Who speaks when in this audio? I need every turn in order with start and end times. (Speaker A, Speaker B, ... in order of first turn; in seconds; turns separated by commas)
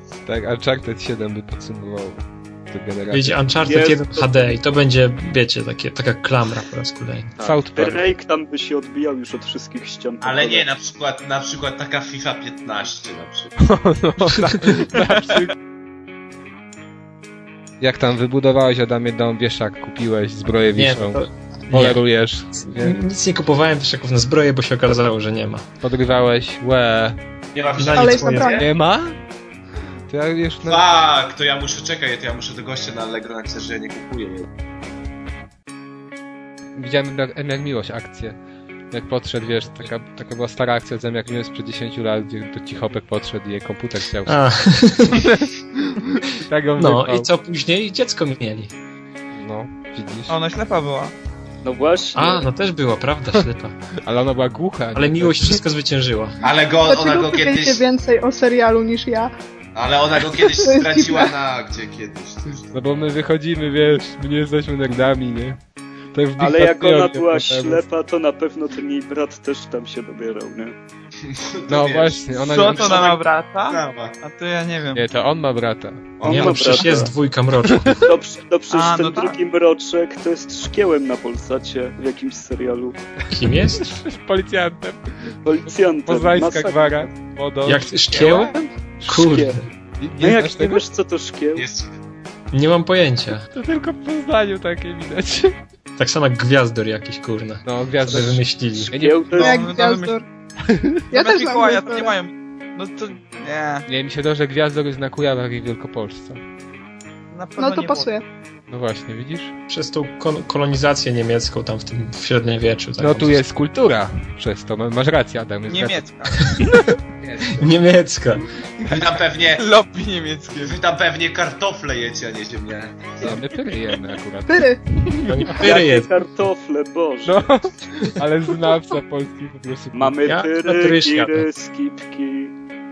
Speaker A: 0.2-3.3, Speaker B: 3.1-7.3, Speaker C: 3.6-4.5, Speaker C: 7.4-10.7, Speaker A: 7.4-8.1, Speaker D: 10.2-13.5, Speaker A: 13.6-15.5, Speaker A: 17.8-22.9, Speaker B: 20.8-22.0, Speaker B: 22.5-25.6, Speaker A: 25.8-27.2, Speaker D: 27.5-28.7, Speaker B: 27.8-28.5, Speaker E: 27.9-28.6, Speaker A: 28.5-29.1, Speaker A: 30.1-30.8, Speaker D: 30.6-34.5, Speaker A: 36.8-38.4, Speaker A: 38.9-44.4, Speaker B: 44.3-45.2, Speaker A: 45.2-47.3, Speaker B: 46.8-48.7, Speaker A: 49.3-50.3, Speaker F: 50.3-51.1, Speaker C: 51.6-52.5, Speaker B: 52.1-53.7, Speaker A: 54.0-55.6, Speaker B: 54.9-56.4, Speaker D: 56.4-57.8, Speaker E: 56.9-59.3, Speaker D: 59.7-62.7, Speaker E: 60.5-61.3, Speaker A: 62.7-65.6, Speaker A: 66.1-67.8, Speaker C: 66.4-70.7, Speaker D: 71.3-74.2, Speaker A: 71.7-73.1, Speaker F: 72.4-75.0, Speaker A: 74.9-76.8, Speaker C: 76.2-77.1, Speaker B: 76.2-78.1, Speaker C: 78.0-83.0, Speaker F: 78.7-79.4, Speaker B: 83.3-83.9, Speaker A: 83.7-85.3, Speaker C: 85.4-87.1, Speaker A: 86.0-88.5, Speaker B: 87.6-88.5, Speaker A: 89.0-90.8, Speaker B: 89.0-89.6, Speaker C: 90.2-91.7, Speaker D: 91.5-91.9, Speaker B: 92.5-93.5, Speaker A: 93.5-95.5, Speaker B: 96.0-98.9, Speaker A: 97.6-99.4, Speaker C: 98.9-99.7, Speaker F: 99.3-100.2, Speaker E: 99.4-100.2, Speaker A: 100.7-101.0, Speaker E: 101.1-102.2, Speaker F: 101.1-103.8, Speaker A: 103.8-106.4, Speaker F: 107.3-108.1, Speaker E: 107.6-108.2, Speaker A: 108.7-109.5, Speaker B: 109.7-113.4, Speaker A: 113.0-116.8, Speaker F: 115.7-116.6, Speaker B: 117.5-118.5, Speaker D: 118.9-119.7, Speaker F: 119.4-120.8, Speaker D: 120.6-123.3, Speaker A: 123.2-125.5, Speaker E: 124.5-124.8, Speaker B: 125.3-126.1, Speaker C: 125.6-127.4, Speaker A: 127.2-130.2, Speaker C: 129.9-132.5, Speaker B: 130.2-131.5